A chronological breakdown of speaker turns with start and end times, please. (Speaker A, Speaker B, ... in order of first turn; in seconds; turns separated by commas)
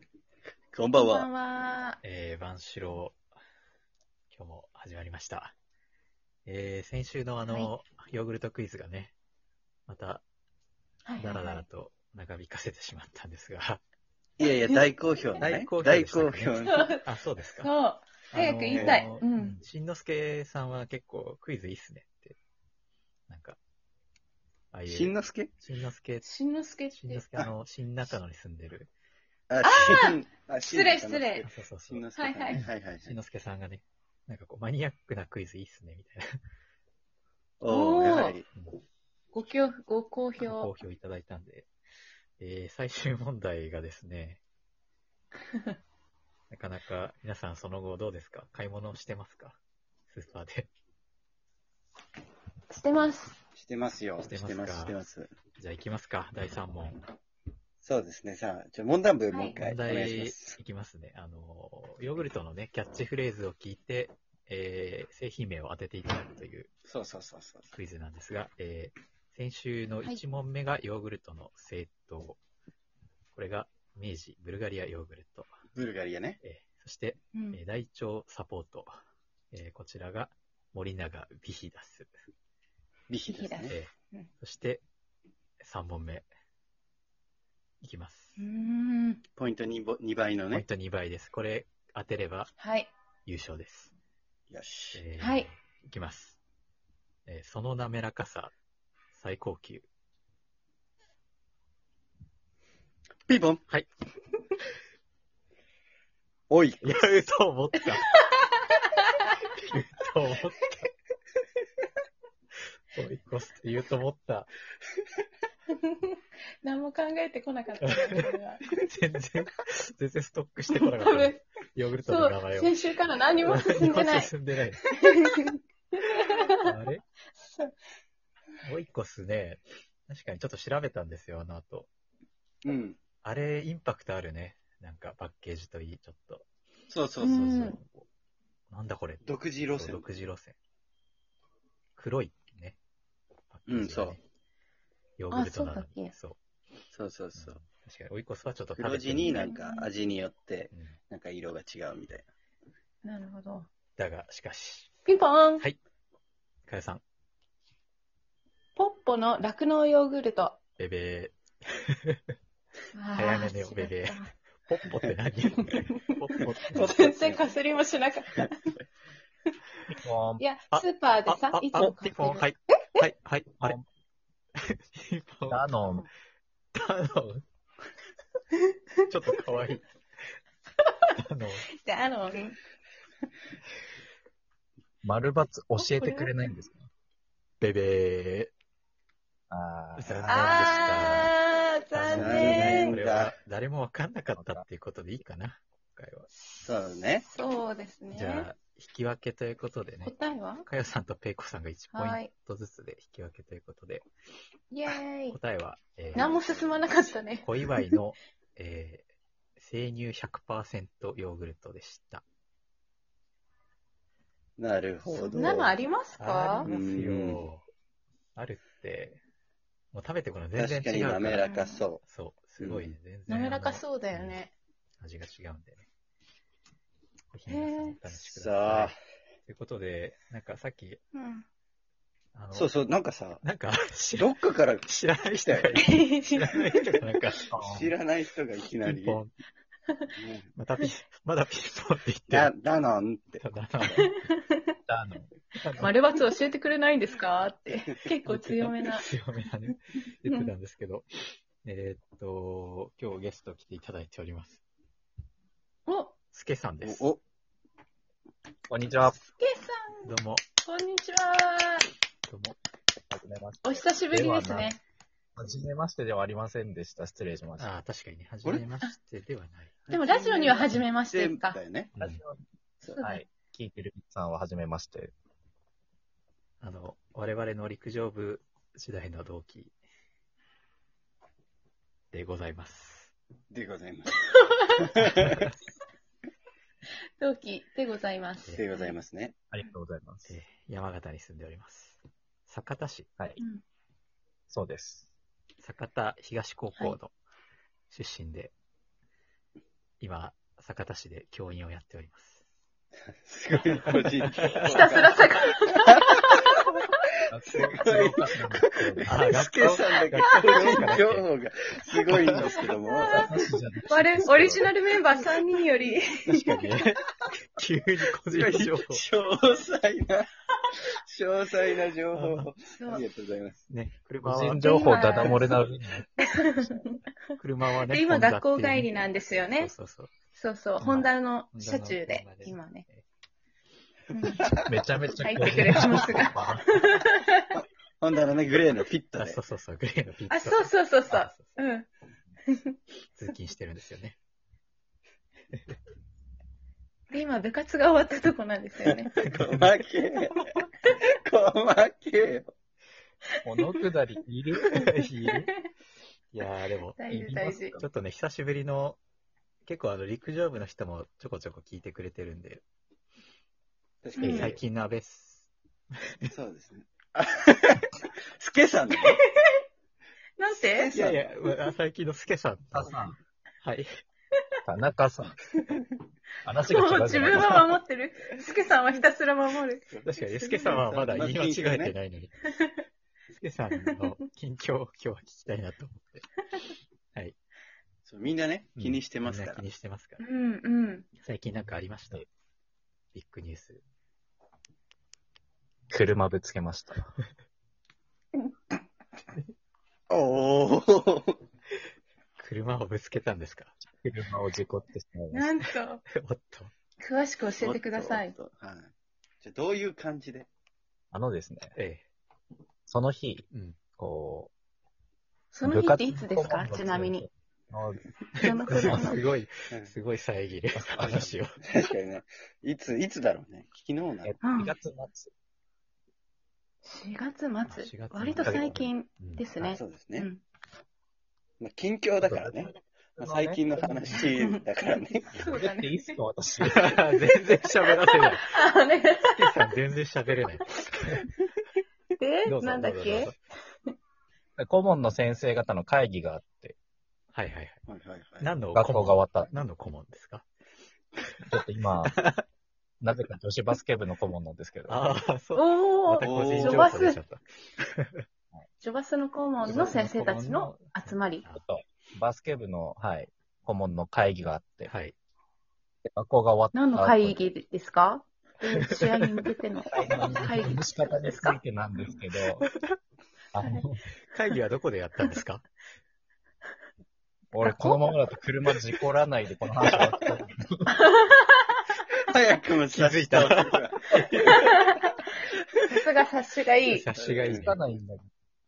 Speaker A: 0.7-1.3, Speaker B: 0.9-2.0, Speaker C: 2.0-3.2, Speaker C: 4.3-5.5, Speaker C: 6.5-9.1, Speaker C: 9.9-10.2, Speaker B: 11.1-11.6, Speaker C: 11.2-13.8, Speaker A: 14.4-17.0, Speaker C: 15.4-17.7, Speaker B: 16.6-17.0, Speaker B: 17.6-19.6, Speaker C: 18.3-22.4, Speaker A: 18.7-19.0, Speaker C: 23.3-23.6, Speaker C: 24.7-26.3, Speaker A: 24.9-25.5, Speaker B: 26.2-27.2, Speaker C: 26.9-28.9, Speaker A: 29.5-33.2, Speaker B: 29.6-31.5, Speaker C: 31.4-36.4, Speaker B: 32.1-32.6, Speaker A: 37.6-38.5, Speaker B: 37.7-38.4, Speaker B: 39.3-40.7, Speaker C: 40.4-41.7, Speaker C: 42.4-44.4, Speaker C: 46.5-50.7, Speaker B: 52.7-53.4, Speaker A: 53.5-55.3, Speaker C: 54.2-55.0, Speaker C: 55.6-57.0, Speaker A: 57.8-60.6, Speaker B: 59.3-59.6, Speaker C: 59.6-66.7, Speaker A: 66.9-67.8, Speaker C: 67.7-72.4, Speaker C: 73.3-75.5, Speaker A: 75.8-76.4, Speaker C: 76.4-78.9, Speaker B: 77.3-77.6, Speaker C: 79.5-82.1, Speaker A: 83.1-83.8, Speaker B: 83.3-84.3, Speaker C: 83.7-84.8, Speaker C: 85.6-86.3, Speaker C: 87.8-88.4, Speaker B: 88.4-89.2, Speaker A: 89.4-90.7, Speaker C: 90.5-92.5, Speaker B: 92.6-92.9, Speaker C: 93.2-93.9, Speaker A: 94.5-95.0, Speaker C: 94.9-96.4, Speaker B: 95.2-95.5, Speaker C: 97.2-98.5, Speaker C: 99.1-99.9, Speaker A: 103.3-103.6, Speaker A: 106.5-106.9, Speaker C: 106.8-108.1, Speaker B: 108.0-109.4, Speaker C: 109.5-110.9, Speaker C: 112.9-114.5, Speaker B: 115.9-118.6, Speaker C: 117.8-122.7, Speaker B: 120.7-121.4, Speaker B: 122.0-124.3, Speaker C: 123.4-124.8, Speaker B: 124.8-126.8, Speaker C: 126.6-127.0, Speaker B: 127.4-127.7, Speaker C: 128.6-131.9, Speaker A: 132.6-133.0, Speaker C: 133.2-136.4, Speaker A: 136.9-137.5, Speaker B: 137.2-137.8, Speaker C: 137.2-138.1, Speaker C: 138.7-140.6, Speaker A: 139.2-140.1, Speaker C: 142.0-142.8, Speaker C: 143.5-144.2, Speaker A: 143.7-144.2, Speaker C: 145.2-146.4, Speaker B: 145.3-146.1, Speaker A: 146.9-147.6, Speaker C: 147.3-149.5, Speaker A: 148.8-152.3, Speaker B: 149.2-149.9, Speaker C: 150.7-151.0, Speaker B: 153.0-153.7, Speaker C: 154.0-154.9, Speaker B: 155.1-155.7, Speaker C: 156.7-157.0, Speaker B: 158.8-160.6, Speaker C: 160.8-161.4, Speaker C: 161.9-162.2, Speaker B: 162.9-164.3, Speaker C: 163.1-167.0, Speaker A: 164.9-165.2, Speaker B: 165.6-166.2, Speaker A: 166.6-167.4, Speaker B: 166.7-168.8, Speaker D: 169.9-170.4, Speaker B: 170.4-172.5, Speaker C: 170.7-173.8, Speaker C: 174.6-175.6, Speaker D: 175.5-176.1, Speaker C: 176.7-177.5, Speaker C: 179.1-179.9, Speaker C: 181.2-181.7, Speaker B: 181.8-182.6, Speaker D: 185.0-186.9, Speaker B: 185.8-186.3, Speaker C: 187.6-188.5, Speaker D: 189.5-190.2, Speaker C: 190.0-191.3, Speaker A: 190.1-191.0, Speaker B: 190.3-192.9, Speaker C: 191.9-196.3, Speaker A: 192.1-193.3, Speaker D: 194.3-194.7, Speaker A: 196.6-197.2, Speaker B: 197.2-198.5, Speaker C: 198.1-200.1, Speaker B: 200.0-200.7, Speaker C: 200.7-204.1, Speaker B: 201.9-202.3, Speaker B: 204.7-205.4, Speaker C: 205.3-206.3, Speaker A: 206.1-206.8, Speaker B: 206.2-207.8, Speaker C: 207.4-209.1, Speaker C: 209.6-212.2, Speaker A: 214.6-215.8, Speaker B: 215.2-216.7, Speaker C: 216.2-217.7, Speaker A: 216.6-217.5, Speaker C: 218.3-219.2, Speaker C: 219.9-221.5, Speaker A: 220.5-222.0, Speaker B: 221.3-221.8, Speaker C: 222.0-224.4, Speaker A: 222.6-222.9, Speaker B: 223.3-224.5, Speaker C: 225.0-225.8, Speaker C: 227.3-231.0, Speaker B: 227.5-228.0, Speaker A: 228.1-229.0, Speaker B: 231.1-231.5, Speaker C: 232.3-232.8, Speaker A: 232.5-233.4, Speaker C: 233.4-234.3, Speaker A: 234.2-234.9, Speaker C: 234.8-237.4, Speaker A: 235.4-235.8, Speaker B: 235.8-236.7, Speaker D: 237.5-237.9, Speaker A: 237.5-239.2, Speaker C: 238.8-239.3, Speaker A: 240.2-240.5, Speaker C: 240.6-242.5, Speaker A: 242.3-243.5, Speaker C: 243.4-244.1, Speaker B: 244.0-244.7, Speaker D: 244.9-245.3, Speaker C: 245.6-245.9, Speaker B: 245.8-249.1, Speaker C: 248.2-254.6, Speaker B: 255.9-256.1, Speaker C: 256.3-257.1, Speaker A: 256.8-257.2, Speaker D: 258.7-259.1, Speaker B: 259.0-261.9, Speaker C: 260.0-260.4, Speaker C: 262.3-262.6, Speaker D: 263.1-264.8, Speaker B: 263.6-264.8, Speaker D: 265.4-267.7, Speaker C: 267.6-269.8, Speaker A: 269.9-271.9, Speaker B: 269.9-271.6, Speaker C: 271.9-272.2, Speaker D: 272.0-272.4, Speaker B: 272.8-273.2, Speaker D: 273.0-275.1, Speaker C: 276.6-279.8, Speaker C: 282.1-283.1, Speaker A: 283.5-284.2, Speaker B: 284.3-284.9, Speaker A: 284.8-285.5, Speaker C: 285.1-285.5, Speaker B: 287.2-288.9, Speaker A: 288.5-289.4, Speaker D: 289.5-290.4, Speaker C: 290.3-293.1, Speaker D: 294.5-295.1, Speaker C: 295.6-297.1, Speaker C: 297.9-298.5, Speaker C: 300.0-302.4, Speaker A: 303.2-305.3, Speaker C: 304.1-304.9, Speaker B: 304.6-306.8, Speaker A: 305.9-306.6, Speaker D: 307.3-309.2, Speaker A: 307.5-313.5, Speaker C: 309.1-311.3, Speaker B: 310.2-310.8, Speaker C: 312.1-312.6, Speaker B: 312.5-313.3, Speaker D: 313.1-314.7, Speaker B: 313.9-316.7, Speaker C: 316.2-319.0, Speaker A: 318.3-320.3, Speaker A: 320.9-323.6, Speaker C: 322.1-322.5, Speaker B: 322.8-323.1, Speaker C: 323.7-326.0, Speaker D: 324.2-326.1, Speaker B: 324.6-325.6, Speaker B: 326.2-327.0, Speaker C: 327.4-330.1, Speaker B: 327.9-329.7, Speaker B: 330.4-332.9, Speaker C: 330.8-333.1, Speaker B: 334.1-334.6, Speaker D: 334.5-336.4, Speaker B: 335.1-337.6, Speaker C: 335.4-336.9, Speaker A: 337.5-339.4, Speaker C: 339.2-341.6, Speaker B: 340.3-341.9, Speaker B: 342.5-342.8, Speaker C: 343.1-344.1, Speaker B: 347.1-349.1, Speaker A: 348.9-350.6, Speaker C: 349.2-349.8, Speaker A: 351.2-352.5, Speaker D: 353.4-354.9, Speaker C: 354.7-355.5, Speaker C: 356.3-357.0, Speaker B: 357.0-357.8, Speaker D: 357.1-357.9, Speaker C: 357.8-359.0, Speaker C: 359.6-362.6, Speaker A: 364.0-364.6, Speaker B: 364.2-364.6, Speaker C: 364.2-366.3, Speaker A: 366.3-369.2, Speaker B: 368.9-369.6, Speaker B: 370.4-370.9, Speaker A: 370.5-371.4, Speaker C: 370.9-373.0, Speaker D: 372.7-373.2, Speaker C: 373.6-373.9, Speaker D: 374.6-375.4, Speaker D: 376.4-377.8, Speaker B: 376.6-380.8, Speaker A: 379.9-381.9, Speaker C: 380.0-382.5, Speaker B: 382.5-382.8, Speaker C: 383.4-386.3, Speaker A: 388.1-389.6, Speaker C: 388.8-390.2, Speaker B: 390.2-391.1, Speaker C: 391.2-392.3, Speaker C: 393.1-393.8, Speaker D: 395.9-397.0, Speaker A: 400.1-401.4, Speaker C: 402.4-403.8, Speaker D: 404.0-405.6, Speaker B: 405.3-406.0, Speaker C: 406.1-406.7, Speaker B: 407.0-408.4, Speaker A: 407.6-410.5, Speaker D: 411.1-411.8, Speaker C: 411.8-412.1, Speaker D: 412.9-413.4, Speaker C: 413.5-413.8, Speaker D: 414.0-414.5, Speaker B: 415.5-417.2, Speaker D: 415.6-418.0, Speaker C: 418.4-421.6, Speaker B: 418.4-419.2, Speaker D: 418.7-419.1, Speaker D: 420.9-421.3, Speaker A: 421.0-424.3, Speaker D: 424.2-425.3, Speaker B: 424.4-424.8, Speaker B: 426.9-430.4, Speaker C: 427.7-429.8, Speaker D: 428.4-428.7, Speaker A: 429.7-430.3, Speaker A: 431.6-435.3, Speaker D: 432.2-434.2, Speaker B: 434.2-436.1, Speaker C: 435.4-435.6, Speaker D: 435.5-436.9, Speaker C: 436.6-438.5, Speaker B: 437.8-439.6, Speaker C: 439.2-441.2, Speaker B: 442.2-443.4, Speaker C: 442.4-443.4, Speaker D: 444.6-446.8, Speaker C: 447.3-447.8, Speaker A: 447.9-448.5, Speaker C: 448.4-450.4, Speaker D: 448.7-449.5, Speaker D: 451.5-452.1, Speaker C: 452.1-452.4, Speaker D: 453.0-455.1, Speaker C: 454.9-458.2, Speaker B: 455.6-457.2, Speaker A: 456.2-456.9, Speaker B: 458.8-461.4, Speaker C: 459.6-461.6, Speaker D: 461.6-464.9, Speaker C: 464.9-465.1, Speaker D: 466.1-467.4, Speaker B: 466.7-471.5, Speaker D: 469.9-472.6, Speaker D: 473.5-474.0, Speaker C: 474.3-475.6, Speaker D: 477.5-481.0, Speaker B: 480.9-481.8, Speaker A: 482.2-484.8, Speaker C: 482.9-484.6, Speaker B: 484.5-485.1, Speaker B: 485.9-487.1, Speaker C: 486.9-487.8, Speaker A: 487.1-487.7, Speaker D: 487.5-488.3